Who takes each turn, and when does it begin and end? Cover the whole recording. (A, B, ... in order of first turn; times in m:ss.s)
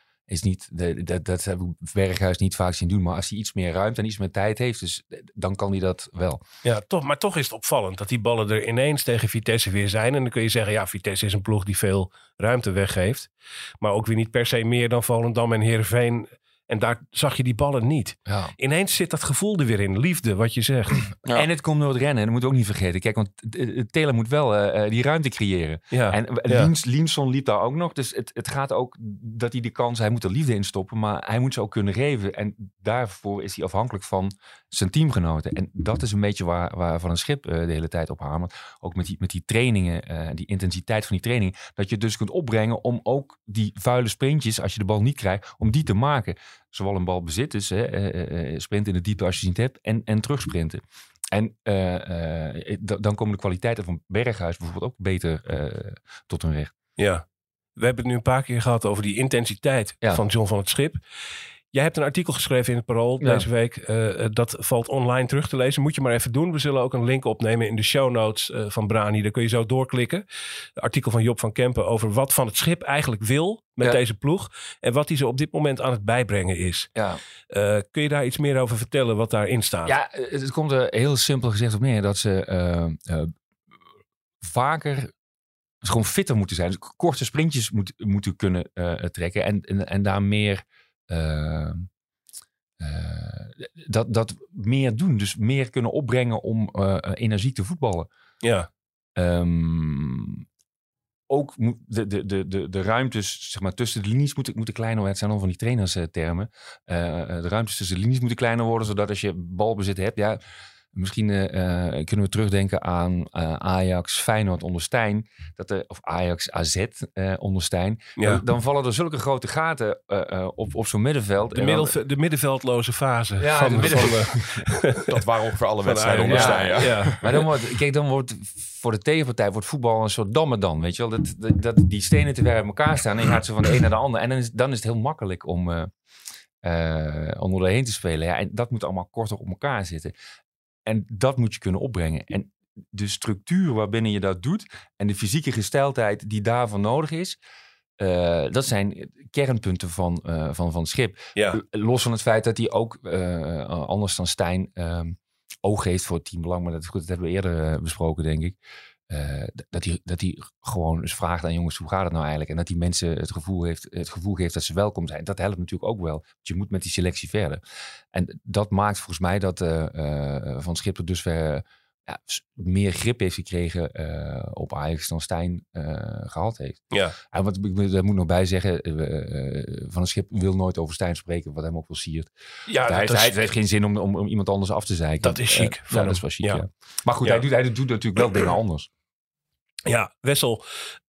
0:00.3-0:06.4 A
0:06.6-0:21.1 B
0:18.3-0:18.5 A
0:21.3-0:56.7 A
0:25.9-0:26.7 B
0:57.0-0:57.2 B
0:57.8-1:01.0 B
1:01.7-1:10.2 B
1:03.2-1:03.4 A
1:10.8-1:16.9 B
1:16.9-1:17.2 A
1:17.5-1:19.9 B
1:19.8-1:23.3 A
1:24.4-1:25.1 A
1:25.8-1:31.9 A
1:32.8-1:38.1 A
1:38.4-1:38.7 B
1:39.2-1:40.4 A
1:41.3-1:50.4 A
1:50.9-2:02.0 A
2:01.5-2:05.1 B
2:03.4-2:04.6 A
2:03.8-2:04.2 C
2:04.9-2:07.4 C
2:05.8-2:07.2 B
2:06.3-2:15.9 A
2:16.6-2:20.1 A
2:20.8-2:27.4 A
2:28.0-2:38.6 A
2:31.4-2:31.6 B
2:39.1-2:47.6 A
2:48.1-3:02.3 A
3:02.7-3:03.4 B
3:02.9-3:08.9 A
3:05.2-3:06.6 B
3:09.9-3:10.6 B